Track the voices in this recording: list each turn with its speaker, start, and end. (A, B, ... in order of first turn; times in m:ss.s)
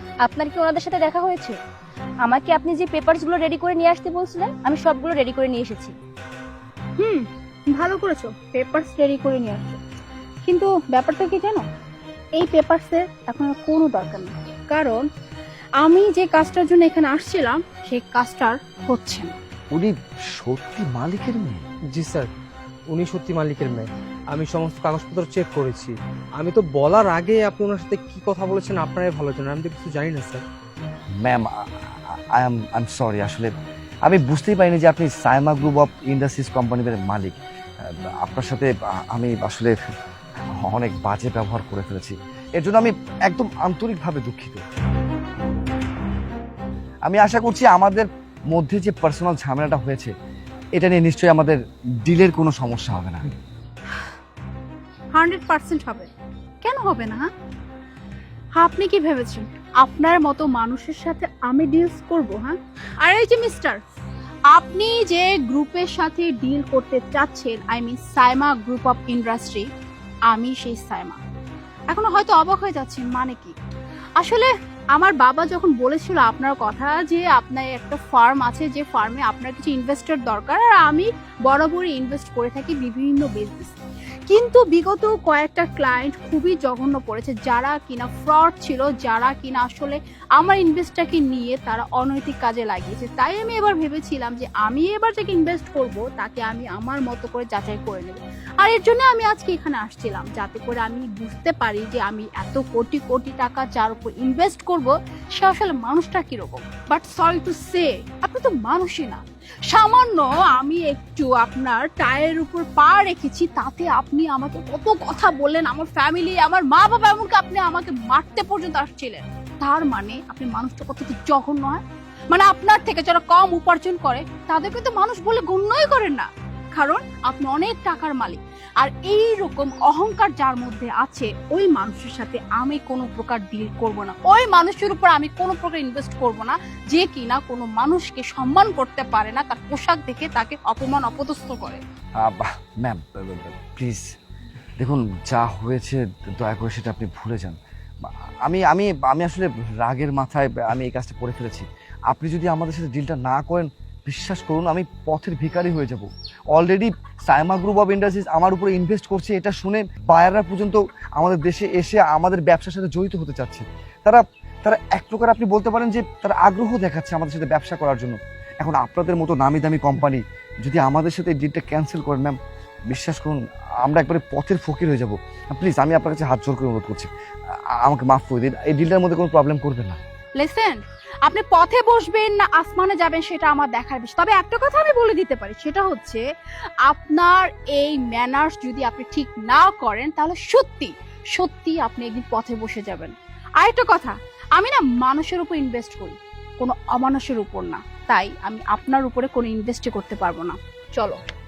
0:00.2-0:01.6 A
0:02.2-0:06.0 A
0:07.0-0:09.8 B
0:10.4-0:11.6 B
0:12.4-0:15.1 B
0:15.8-0:19.3 B
0:19.7-0:21.6 C
0:21.9-0:22.3 D
0:22.9-0:30.4 D
0:31.2-0:31.5 C
0:32.3-0:33.5 C
0:34.0-0:39.8 C
0:40.6-0:44.6 C
0:47.0-0:50.1 C
0:50.8-0:53.3 C
0:55.1-0:56.1 B
0:56.6-0:57.3 B
0:58.6-1:03.8 B
1:04.5-1:09.6 B
1:10.3-1:11.2 B
1:11.9-1:13.5 B
1:14.2-1:23.8 B
1:24.3-2:21.8 B
2:22.2-2:24.1 C
2:24.8-2:52.4 C
2:52.9-2:57.1 C
2:57.8-3:00.0 C
3:00.4-3:06.2 B
3:06.8-3:21.2 B